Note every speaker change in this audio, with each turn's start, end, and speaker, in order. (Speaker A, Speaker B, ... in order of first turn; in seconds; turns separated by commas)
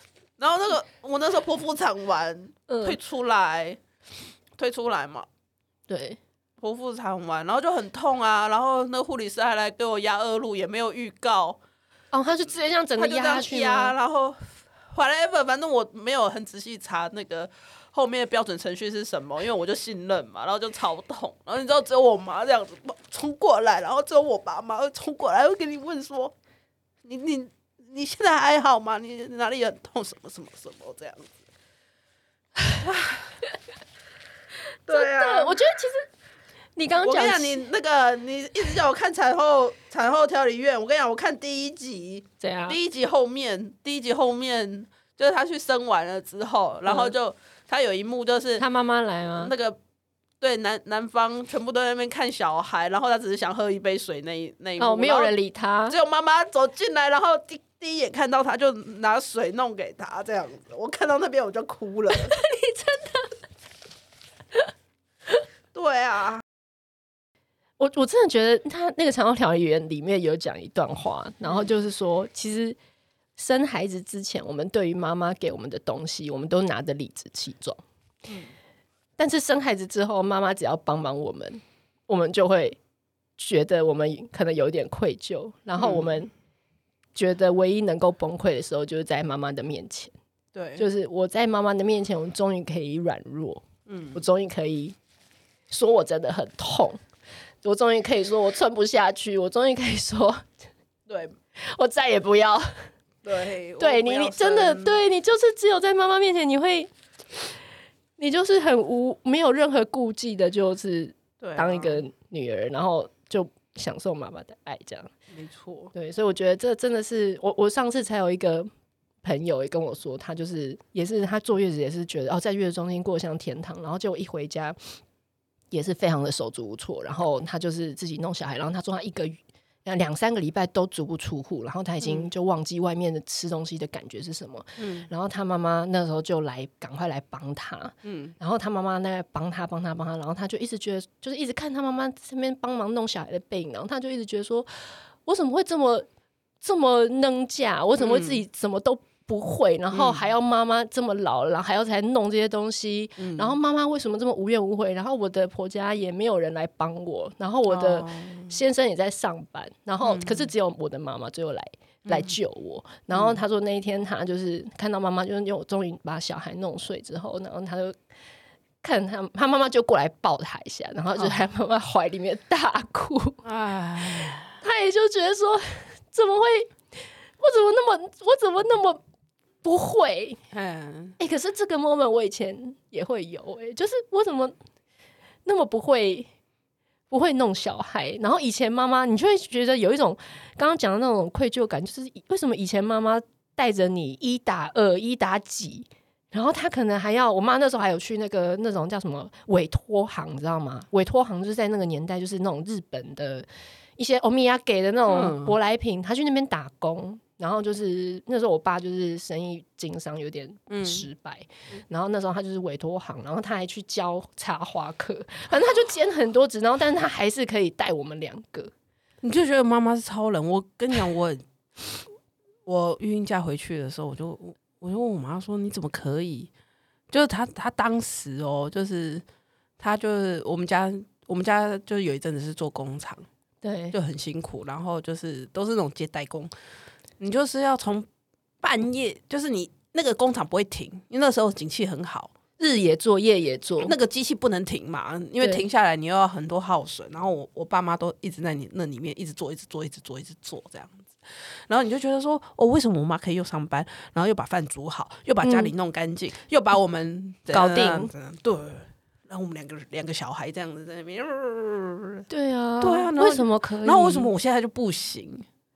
Speaker A: 0.4-3.8, Speaker B: 2.7-3.0, Speaker A: 4.6-5.3, Speaker B: 5.9-6.2, Speaker A: 6.6-11.6, Speaker B: 12.1-13.9, Speaker A: 13.0-26.3, Speaker A: 27.0-31.3, Speaker A: 32.8-33.3, Speaker A: 34.9-35.7, Speaker B: 34.9-36.1, Speaker B: 36.8-37.6, Speaker A: 36.9-48.6, Speaker B: 42.4-42.8, Speaker B: 46.9-47.1, Speaker B: 48.6-49.5, Speaker A: 49.4-49.8, Speaker A: 50.4-55.3, Speaker B: 54.8-56.0, Speaker A: 55.9-62.3, Speaker B: 62.1-63.3, Speaker A: 65.7-66.4, Speaker B: 67.8-72.8, Speaker B: 73.4-77.8, Speaker B: 79.2-82.8, Speaker B: 83.4-86.3, Speaker A: 85.8-86.1, Speaker B: 87.1-90.1, Speaker A: 90.5-90.8, Speaker B: 90.8-95.0, Speaker A: 93.9-94.2, Speaker B: 95.7-97.0, Speaker B: 97.6-100.4, Speaker A: 101.1-101.3, Speaker B: 101.6-102.9, Speaker A: 103.2-105.0, Speaker B: 103.8-106.9, Speaker B: 108.2-115.1, Speaker A: 111.4-112.0, Speaker A: 115.3-115.9, Speaker B: 115.9-118.7, Speaker B: 119.2-124.8, Speaker B: 125.7-146.1, Speaker A: 132.0-132.3, Speaker A: 134.8-135.1, Speaker A: 138.0-138.3, Speaker B: 146.6-167.9, Speaker A: 148.0-148.4, Speaker A: 149.9-150.2, Speaker A: 153.2-153.6, Speaker A: 157.7-158.6, Speaker A: 160.0-160.5, Speaker A: 162.1-162.3, Speaker A: 163.1-163.4, Speaker B: 168.8-173.4, Speaker A: 173.4-174.6, Speaker B: 174.6-176.7, Speaker B: 177.4-179.0, Speaker B: 179.6-180.4, Speaker A: 180.5-181.2, Speaker B: 181.2-184.5, Speaker B: 185.4-186.3, Speaker B: 187.1-203.4, Speaker B: 204.0-218.7, Speaker A: 205.1-205.6, Speaker A: 210.7-211.1, Speaker A: 219.2-221.4, Speaker A: 222.7-226.5, Speaker A: 227.1-229.2, Speaker A: 229.8-233.2, Speaker B: 233.6-233.9, Speaker A: 233.9-236.5, Speaker A: 237.2-238.1, Speaker A: 238.6-242.3, Speaker B: 242.6-243.9, Speaker A: 243.8-251.1, Speaker A: 251.7-262.2, Speaker B: 255.4-255.7, Speaker B: 257.5-258.1, Speaker B: 262.3-264.3, Speaker A: 262.8-265.4